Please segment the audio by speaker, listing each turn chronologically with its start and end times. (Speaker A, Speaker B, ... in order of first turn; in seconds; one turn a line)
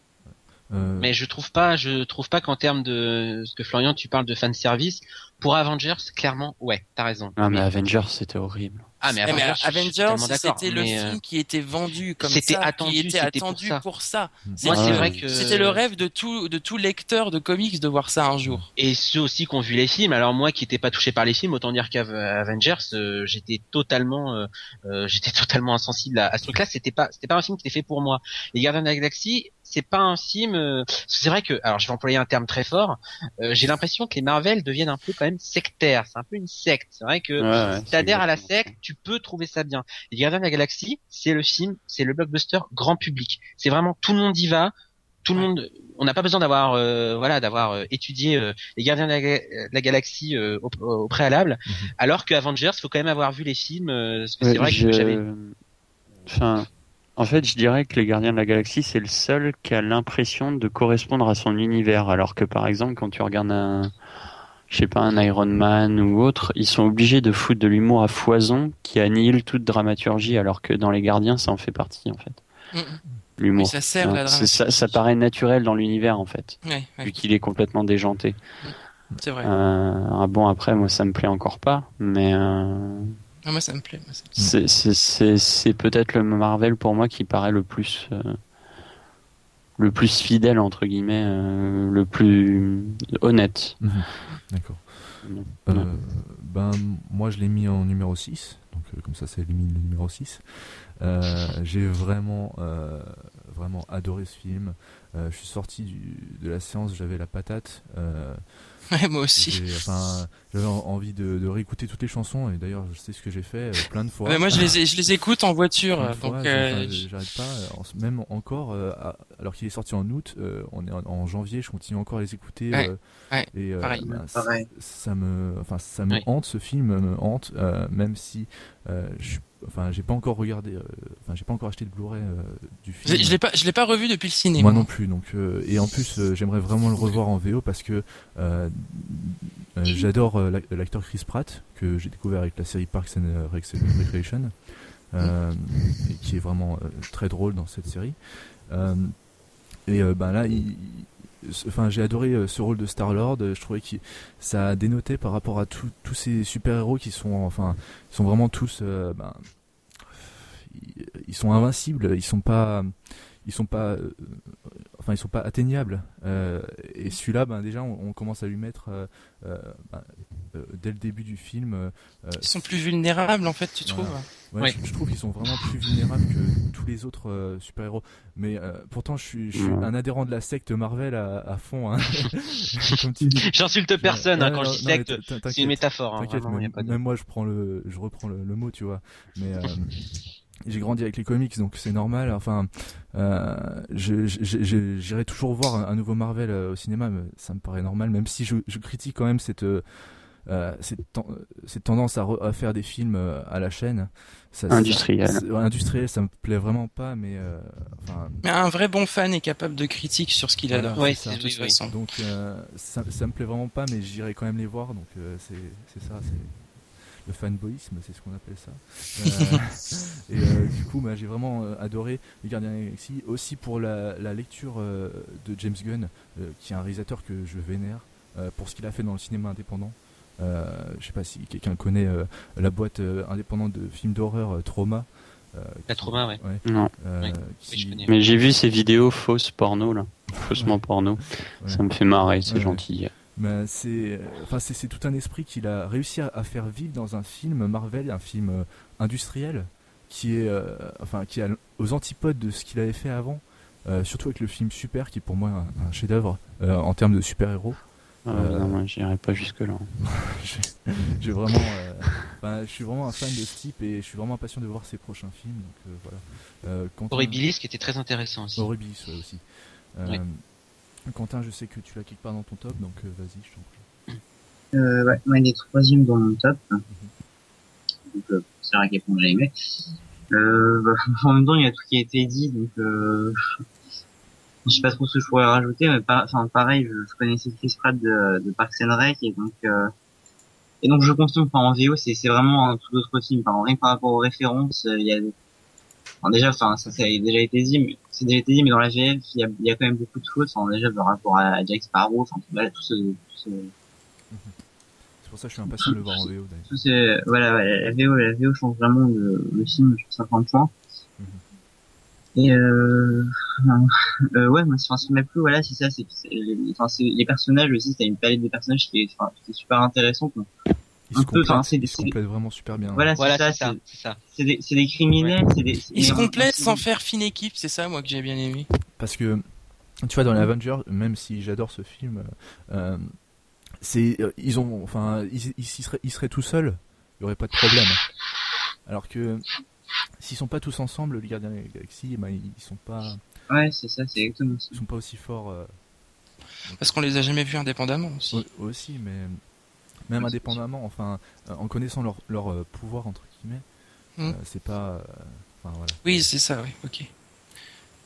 Speaker A: 0.3-1.1
Speaker B: 1.0-7.7
Speaker C: 7.4-8.9
Speaker B: 9.0-11.2
Speaker D: 9.2-18.7
Speaker B: 12.2-13.8
Speaker B: 14.6-15.8
Speaker C: 14.7-15.2
Speaker B: 18.8-44.7
Speaker C: 37.4-38.7
Speaker B: 45.2-55.2
Speaker A: 51.6-51.9
Speaker C: 54.4-55.6
Speaker C: 56.2-63.9
Speaker C: 64.7-72.4
Speaker D: 72.7-75.0
Speaker C: 73.4-78.6
Speaker D: 76.6-77.2
Speaker D: 78.6-79.5
Speaker C: 79.4-83.2
Speaker D: 83.4-84.3
Speaker C: 84.4-88.4
Speaker C: 89.8-94.0
Speaker A: 93.8-114.7
Speaker C: 95.2-95.9
Speaker D: 108.9-109.7
Speaker D: 114.2-117.1
Speaker A: 116.0-133.4
Speaker D: 122.7-124.1
Speaker E: 124.0-124.7
Speaker D: 133.0-134.9
Speaker A: 134.6-172.6
Speaker D: 172.4-174.3
Speaker A: 173.8-190.1
Speaker C: 179.5-179.9
Speaker B: 183.5-187.0
Speaker A: 190.7-208.4
Speaker C: 204.7-205.4
Speaker D: 208.4-212.0
Speaker A: 210.7-238.0
Speaker B: 210.9-211.8
Speaker D: 219.2-219.6
Speaker B: 235.9-236.4
Speaker C: 236.6-236.9
Speaker B: 237.2-238.1
Speaker C: 238.1-243.1
Speaker A: 240.3-258.8
Speaker C: 258.2-259.9
Speaker A: 260.0-267.4
Speaker B: 267.1-268.7
Speaker A: 268.6-273.9
Speaker E: 274.7-276.8
Speaker A: 276.9-277.1
Speaker E: 278.1-279.5
Speaker E: 280.3-283.3
Speaker E: 284.6-289.9
Speaker E: 290.8-295.4
Speaker E: 296.2-303.7
Speaker A: 304.3-304.6
Speaker A: 305.1-306.7
Speaker E: 305.8-306.2
Speaker E: 306.7-310.7
Speaker A: 311.2-311.4
Speaker E: 312.3-320.5
Speaker A: 321.1-323.2
Speaker E: 321.1-322.2
Speaker E: 322.9-323.8
Speaker B: 323.2-324.2
Speaker E: 324.3-326.8
Speaker D: 325.9-328.7
Speaker A: 328.9-338.1
Speaker A: 338.8-343.2
Speaker E: 343.5-344.8
Speaker A: 344.7-345.8
Speaker A: 346.6-346.9
Speaker D: 346.8-348.4
Speaker A: 348.3-356.3
Speaker E: 350.2-350.6
Speaker D: 356.0-357.1